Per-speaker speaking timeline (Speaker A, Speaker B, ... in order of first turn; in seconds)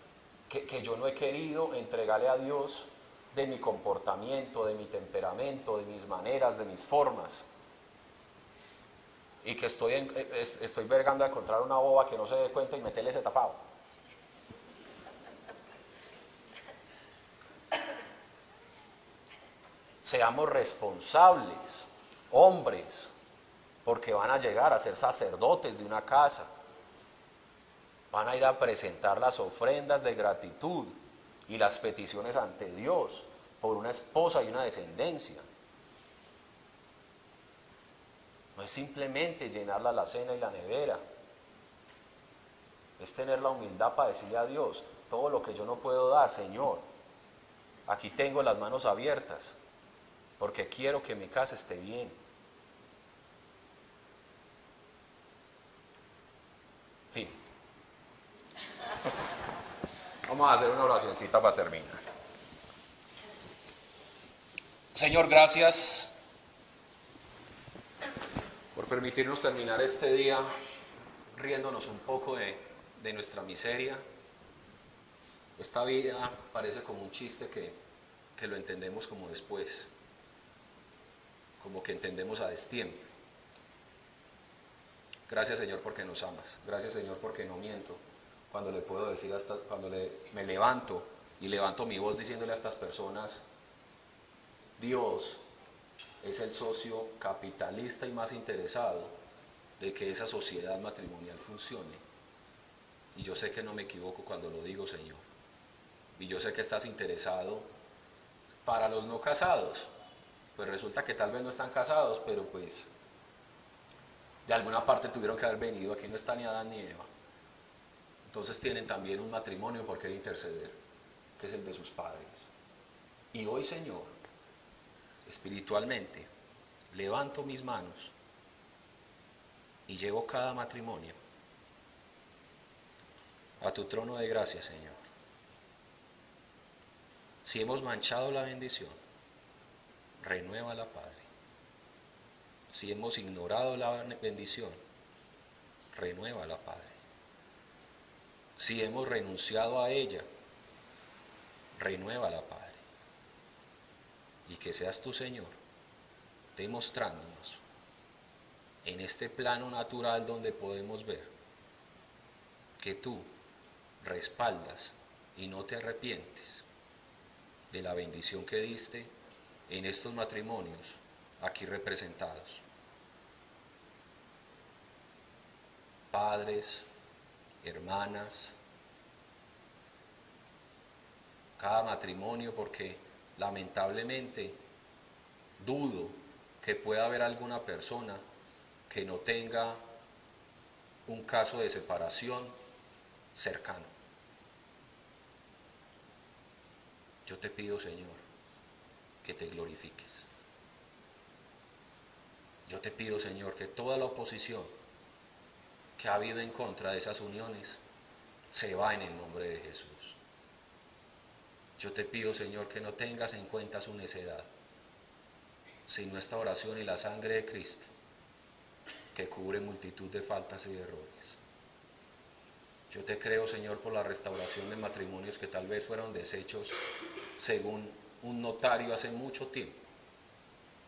Speaker A: 0.5-7.4, 9.4-13.6, 20.0-23.1, 23.8-26.5, 28.1-35.4, 38.5-41.0, 43.0-46.9, 47.9-49.5, 50.4-52.2, 57.1-57.4, 60.2-62.0, 64.9-66.1, 68.7-70.6, 71.3-74.0, 75.6-77.8, 78.3-79.9, 81.6-83.1, 85.3-93.4, 94.8-95.4, 96.2-99.2, 99.8-102.0, 103.1-105.2, 106.1-107.7, 108.6-109.9, 110.5-112.9, 114.5-117.1, 118.2-120.8, 121.4-122.5, 123.3-124.2, 125.2-126.3, 126.9-128.1, 129.9-131.2, 133.6-135.1, 137.4-139.0, 140.2-141.2, 142.7-144.8, 145.9-146.9, 148.6-150.3, 151.7-152.8, 154.4-155.6, 156.5-157.6, 158.8-161.3, 162.8-163.3, 164.0-166.7, 167.7-169.1, 169.7-172.6, 176.1-176.9, 177.6-178.6, 181.6-184.6, 185.6-188.2, 188.9-189.8, 191.1-192.5, 193.3-193.9, 197.2-198.2, 199.2-200.3, 202.7-204.8, 206.0-207.8, 208.5-210.2, 211.8-214.5, 215.9-217.9, 219.1-221.4, 222.9-226.8, 227.3-229.8